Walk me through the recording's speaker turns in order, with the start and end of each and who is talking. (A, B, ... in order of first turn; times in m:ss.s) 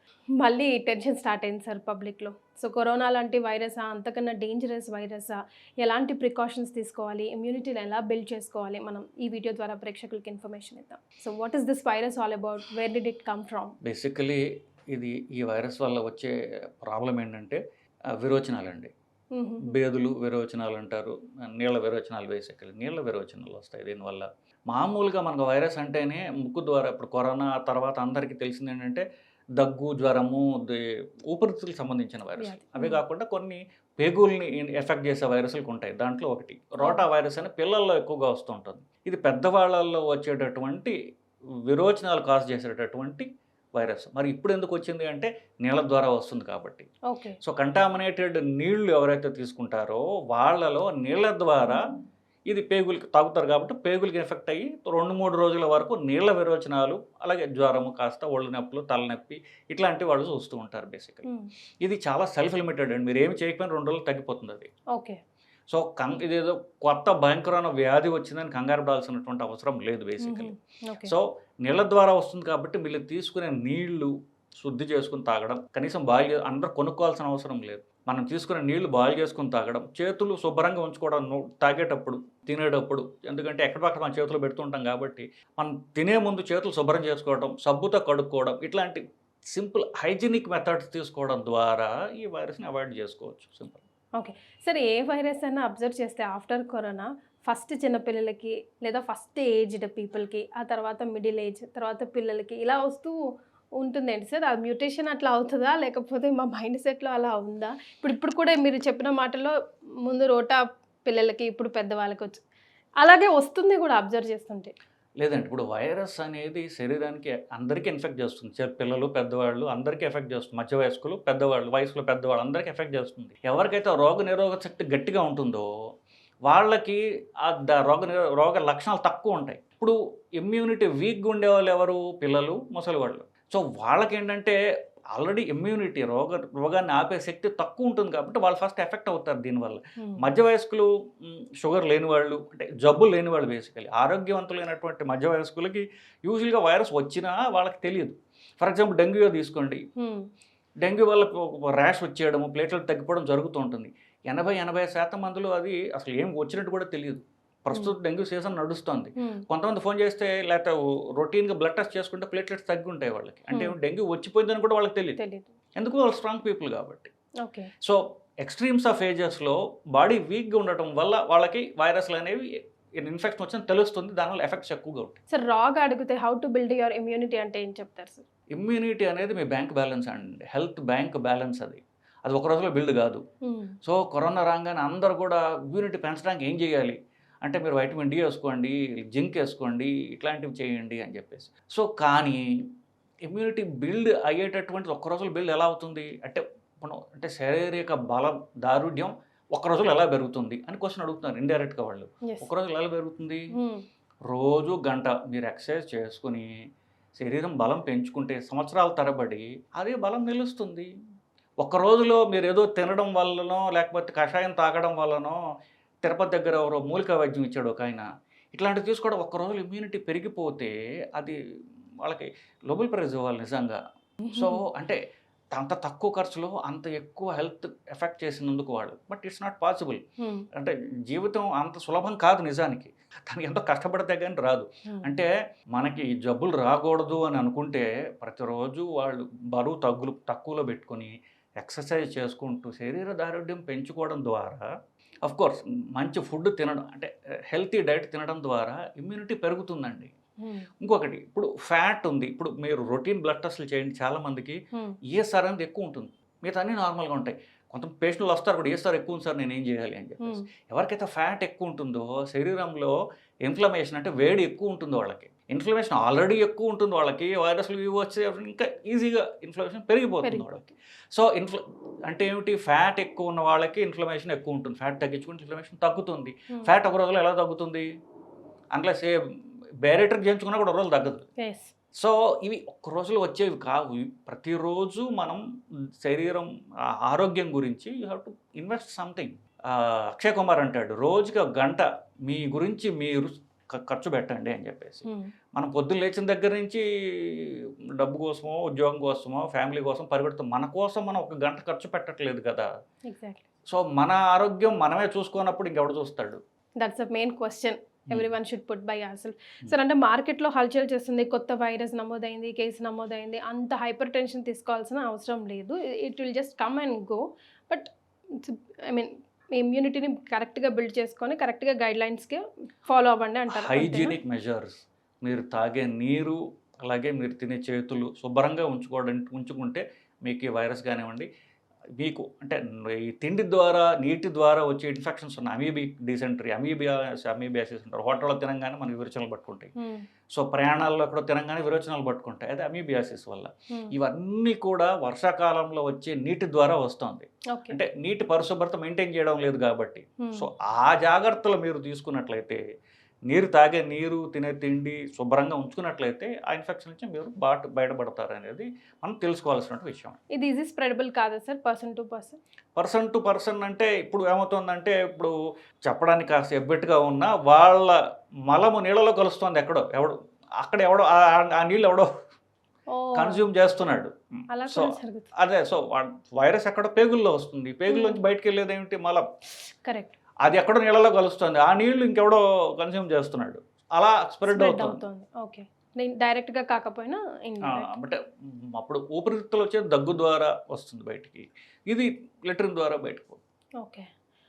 0:00.4-0:13.8 A
0:13.8-0:17.6 B
0:18.2-0:18.9 B
0:19.3-0:19.7 A
0:19.7-0:29.0 B
0:29.6-0:41.0 B
0:32.4-0:33.0 A
0:41.7-0:46.9 B
0:47.1-0:47.4 A
0:47.4-0:51.8 B
0:52.5-1:01.3 B
1:01.8-1:04.7 B
1:04.9-1:05.2 A
1:05.7-1:33.8 B
1:10.2-1:11.1 A
1:34.2-1:43.2 A
1:43.8-1:52.4 A
1:53.0-1:54.7 A
1:55.2-2:05.7 B
2:06.5-2:14.6 B
2:15.1-2:29.8 B
2:20.0-2:20.3 A
2:30.0-2:30.3 A
2:30.8-2:45.2 B
2:39.2-2:39.4 A
2:45.2-2:45.5 A
2:45.8-2:47.1 B
2:47.4-2:47.7 A
2:47.8-2:52.5 B
2:53.0-2:55.2 B
2:55.3-2:58.2 A
2:58.5-3:03.2 B
3:03.4-3:03.8 A
3:03.8-3:12.4 B
3:13.3-3:23.5 B
3:23.5-3:23.8 A
3:24.3-3:26.5 B
3:27.2-3:30.9 B
3:31.6-3:35.4 B
3:36.0-3:41.4 B
3:42.0-3:43.8 B
3:44.2-3:44.6 A
3:44.3-3:45.0 B
3:45.5-3:50.0 B
3:50.2-3:50.5 A
3:50.6-4:04.7 B
3:54.9-3:55.2 A
4:05.2-4:10.1 B
4:10.4-4:10.7 A
4:10.8-4:22.9 B
4:14.7-4:15.0 A
4:20.2-4:20.5 A
4:23.5-4:37.9 B
4:30.2-4:30.7 A
4:38.7-4:39.2 B
4:39.8-4:41.3 B
4:41.4-4:41.7 A
4:42.0-4:45.4 B
4:46.0-4:55.1 B
4:55.0-4:55.3 A
4:55.6-5:02.7 B
5:03.1-5:03.5 A
5:03.7-5:06.4 B
5:06.8-5:24.2 A
5:23.5-5:31.3 B
5:32.0-5:39.7 B
5:39.8-5:40.0 A
5:40.3-5:52.6 B
5:47.5-5:47.8 A
5:50.2-5:50.5 A
5:53.3-6:00.2 B
6:00.3-6:02.4 A
6:02.8-6:05.3 B
6:05.9-6:08.0 B
6:08.5-6:12.1 B
6:12.9-6:13.4 A
6:13.2-6:14.1 B
6:14.5-6:15.3 A
6:14.7-6:19.2 B
6:17.9-6:18.2 A
6:19.7-6:20.1 A
6:20.4-6:25.0 B
6:24.5-6:27.9 A
6:27.6-6:33.4 B
6:33.8-6:34.1 A